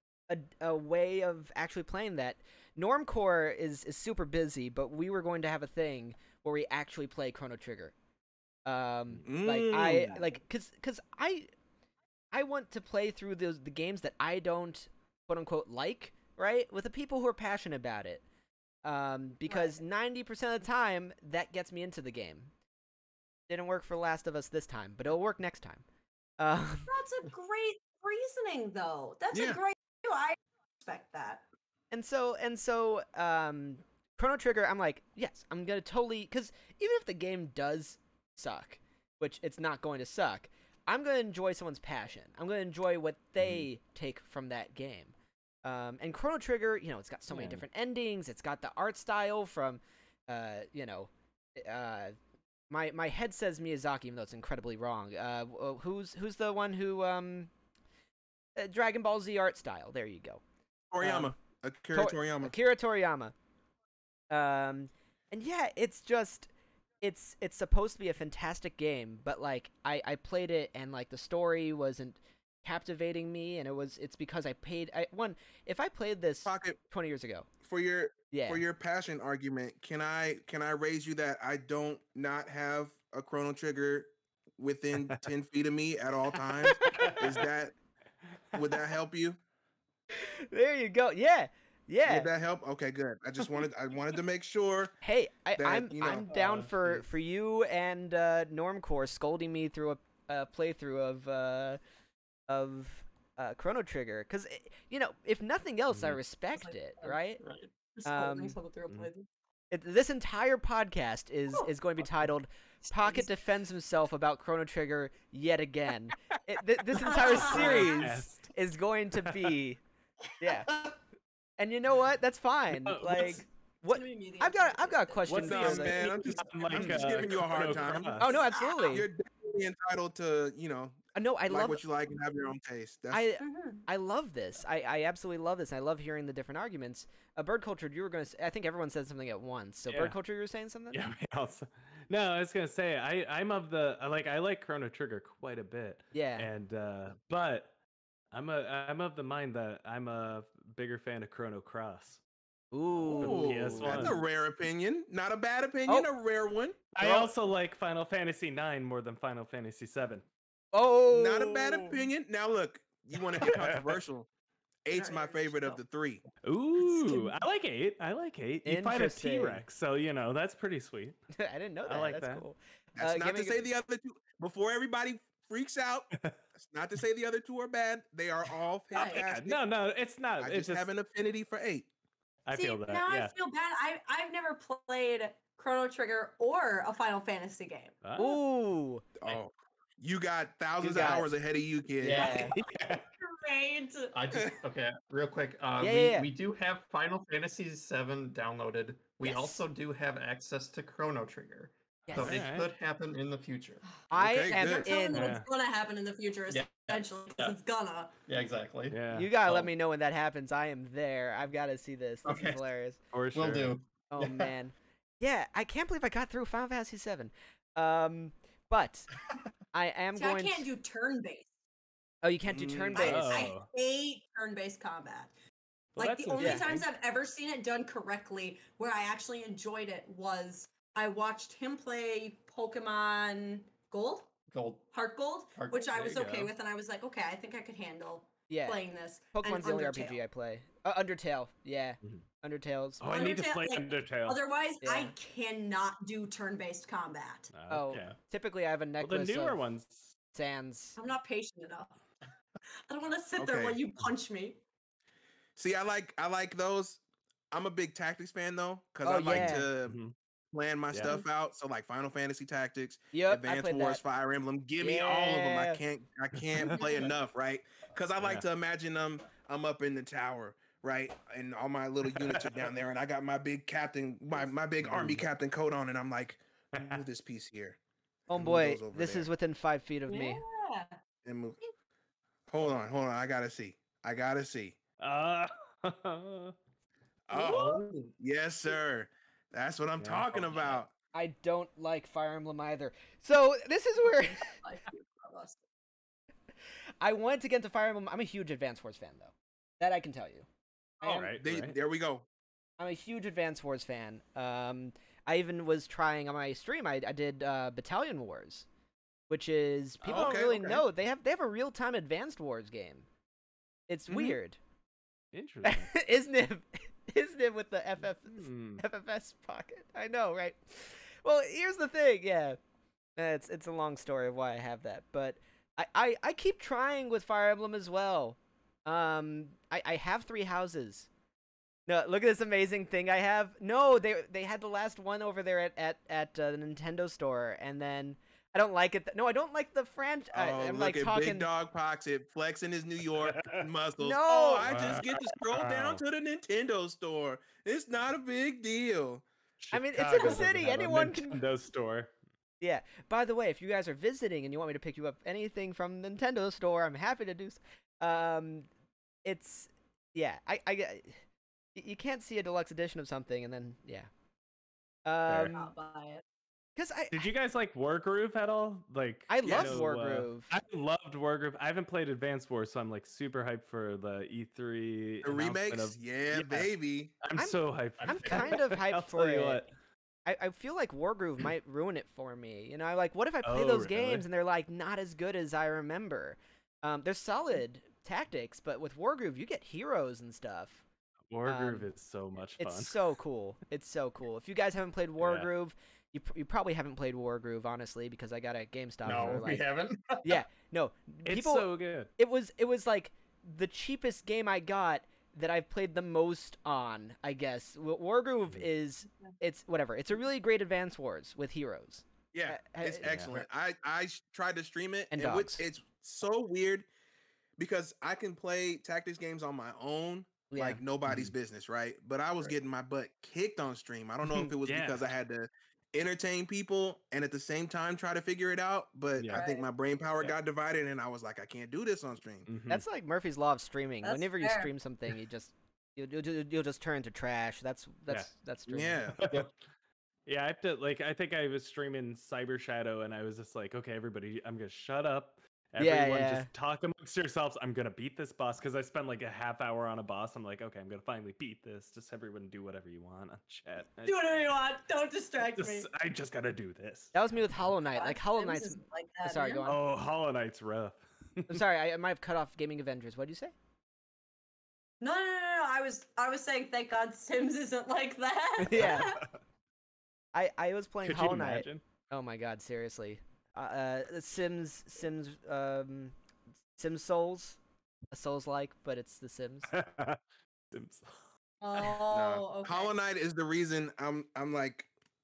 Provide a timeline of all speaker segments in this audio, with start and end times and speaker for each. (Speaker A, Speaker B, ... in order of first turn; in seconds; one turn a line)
Speaker A: 0.3-7.9
Speaker A: 8.7-11.5
Speaker B: 9.2-10.3
Speaker A: 12.3-18.2
Speaker A: 18.8-22.5
Speaker C: 19.5-19.8
Speaker A: 23.5-25.8
Speaker A: 26.4-26.9
Speaker C: 26.9-31.4
Speaker B: 29.3-29.6
Speaker A: 31.9-45.1
Speaker D: 43.4-43.7
Speaker A: 45.6-52.1
Speaker D: 47.3-47.6
Speaker A: 52.7-57.5
Speaker A: 58.6-60.4
Speaker B: 60.9-62.5
Speaker A: 61.0-61.3
Speaker A: 61.9-63.3
Speaker A: 64.3-66.5
Speaker A: 67.0-77.5
Speaker B: 76.5-76.8
Speaker B: 77.6-87.7
Speaker A: 78.3-78.6
Speaker D: 86.6-87.2
Speaker A: 86.7-87.2
Speaker B: 88.5-89.4
Speaker A: 90.1-92.3
Speaker B: 92.1-95.0
Speaker A: 95.0-101.8
Speaker B: 95.6-96.3
Speaker D: 96.3-97.0
Speaker A: 102.5-107.4
Speaker D: 105.9-106.2
Speaker C: 106.6-107.2
Speaker E: 107.4-107.7
Speaker C: 108.0-109.3
Speaker A: 108.0-108.6
Speaker A: 109.7-119.8
Speaker C: 112.9-113.3
Speaker C: 117.0-118.1
Speaker D: 117.1-118.5
Speaker D: 119.2-119.5
Speaker A: 120.4-120.7
Speaker A: 121.6-126.1
Speaker D: 122.7-123.4
Speaker C: 123.8-125.8
Speaker D: 125.3-128.4
Speaker B: 125.4-133.3
Speaker A: 128.2-129.1
Speaker C: 128.2-129.0
Speaker A: 131.2-131.8
Speaker A: 133.1-141.1
Speaker C: 133.4-133.8
Speaker D: 139.9-140.2
Speaker D: 140.9-147.7
Speaker A: 146.1-146.5
Speaker D: 148.3-152.2
Speaker A: 152.7-154.2
Speaker D: 153.1-154.2
Speaker B: 153.1-157.2
Speaker D: 156.9-160.2
Speaker A: 160.7-162.0
Speaker B: 161.1-164.3
Speaker D: 163.4-164.0
Speaker B: 164.8-166.2
Speaker C: 164.9-165.8
Speaker D: 166.4-171.2
Speaker C: 166.8-167.3
Speaker A: 168.7-169.6
Speaker A: 171.3-173.7
Speaker D: 171.9-172.4
Speaker B: 173.0-179.6
Speaker C: 178.9-179.2
Speaker D: 178.9-180.9
Speaker B: 180.4-181.9
Speaker D: 182.5-183.3
Speaker C: 182.5-188.0
Speaker D: 188.0-188.4
Speaker A: 188.2-189.0
Speaker B: 189.2-192.4
Speaker A: 190.8-191.3
Speaker E: 192.0-192.5
Speaker A: 192.0-192.6
Speaker C: 192.2-194.3
Speaker D: 192.6-193.1
Speaker E: 194.1-203.8
Speaker A: 195.8-196.3
Speaker A: 199.2-199.6
Speaker A: 202.1-202.4
Speaker D: 202.2-202.7
Speaker A: 204.1-205.4
Speaker B: 204.1-204.9
Speaker C: 204.4-208.2
Speaker D: 205.1-205.5
Speaker E: 206.5-207.6
Speaker E: 208.3-209.7
Speaker D: 208.9-209.3
Speaker A: 209.1-213.0
Speaker E: 212.2-212.6
Speaker D: 213.1-213.8
Speaker E: 213.3-214.5
Speaker A: 214.1-219.1
Speaker A: 219.7-220.7
Speaker C: 220.2-221.5
Speaker A: 222.2-223.5
Speaker B: 222.5-223.0
Speaker C: 222.9-225.3
Speaker D: 223.0-223.7
Speaker D: 226.0-226.9
Speaker C: 226.0-234.3
Speaker A: 226.4-226.7
Speaker E: 234.5-234.9
Speaker C: 234.9-240.2
Speaker E: 235.6-236.2
Speaker D: 236.0-236.5
Speaker A: 238.5-238.8
Speaker A: 239.3-243.0
Speaker D: 243.0-244.4
Speaker C: 243.1-247.5
Speaker A: 244.8-245.2
Speaker D: 247.5-248.2
Speaker A: 247.7-249.6
Speaker D: 249.0-250.1
Speaker A: 250.3-251.0
Speaker C: 251.0-252.0
Speaker C: 252.9-254.6
Speaker B: 253.4-253.8
Speaker B: 255.6-257.0
Speaker B: 257.5-260.0
Speaker A: 259.0-259.7
Speaker D: 259.3-260.1
Speaker B: 260.5-277.8
Speaker D: 260.9-261.2
Speaker A: 263.1-264.0
Speaker A: 264.8-265.8
Speaker C: 266.7-267.1
Speaker D: 272.1-272.6
Speaker D: 274.8-275.2
Speaker D: 276.7-277.0
Speaker A: 278.3-280.4
Speaker B: 278.3-279.3
Speaker C: 280.1-281.0
Speaker B: 281.2-281.6
Speaker B: 282.5-284.8
Speaker D: 285.0-286.5
Speaker B: 287.3-290.9
Speaker C: 287.4-287.8
Speaker D: 290.0-290.8
Speaker A: 291.1-294.6
Speaker C: 294.0-295.6
Speaker A: 297.0-300.5
Speaker D: 301.0-301.8
Speaker B: 301.0-302.3
Speaker A: 302.8-308.7
Speaker A: 309.3-313.1
Speaker D: 310.0-310.3
Speaker B: 310.1-310.8
Speaker A: 313.9-314.6
Speaker D: 314.1-314.4
Speaker D: 315.3-315.9
Speaker A: 315.6-322.6
Speaker D: 318.3-318.8
Speaker A: 323.2-331.1
Speaker A: 331.9-341.5
Speaker B: 340.3-349.2
Speaker D: 343.2-343.7
Speaker A: 344.0-344.7
Speaker D: 344.6-346.0
Speaker D: 349.6-352.1
Speaker A: 349.7-351.4
Speaker A: 352.6-358.7
Speaker A: 359.2-361.2
Speaker A: 361.8-364.1
Speaker A: 365.1-365.7
Speaker D: 365.3-365.6
Speaker C: 365.5-366.2
Speaker A: 366.8-367.3
Speaker D: 367.1-376.7
Speaker A: 369.3-370.5
Speaker B: 369.4-369.9
Speaker B: 375.2-377.1
Speaker D: 377.2-379.7
Speaker A: 377.4-379.6
Speaker E: 378.0-378.6
Speaker A: 380.3-390.8
Speaker D: 383.4-384.2
Speaker D: 391.3-393.0
Speaker A: 391.5-391.9
Speaker A: 392.6-399.6
Speaker D: 395.2-395.5
Speaker E: 399.0-400.4
Speaker D: 399.1-399.5
Speaker A: 400.2-413.4
Speaker D: 401.3-402.1
Speaker B: 412.3-416.9
Speaker D: 413.0-413.3
Speaker A: 415.1-415.6
Speaker B: 417.6-432.5
Speaker A: 420.5-420.8
Speaker D: 421.1-421.3
Speaker D: 424.6-425.1
Speaker D: 429.2-429.4
Speaker C: 429.3-429.7
Speaker D: 432.5-432.8
Speaker A: 432.7-439.1
Speaker C: 434.0-434.7
Speaker B: 438.7-439.2
Speaker D: 439.2-439.5
Speaker D: 440.3-454.4
Speaker A: 445.8-446.5
Speaker C: 454.1-455.9
Speaker D: 455.4-457.2
Speaker A: 457.1-459.8
Speaker C: 458.0-459.7
Speaker D: 459.6-461.6
Speaker A: 461.5-463.5
Speaker C: 465.0-469.2
Speaker A: 468.6-469.2
Speaker D: 468.8-469.3
Speaker A: 470.3-476.1
Speaker D: 471.0-471.8
Speaker A: 476.8-477.6
Speaker A: 478.1-479.7
Speaker D: 479.7-480.2
Speaker D: 480.7-481.2
Speaker C: 481.6-482.9
Speaker B: 482.1-484.9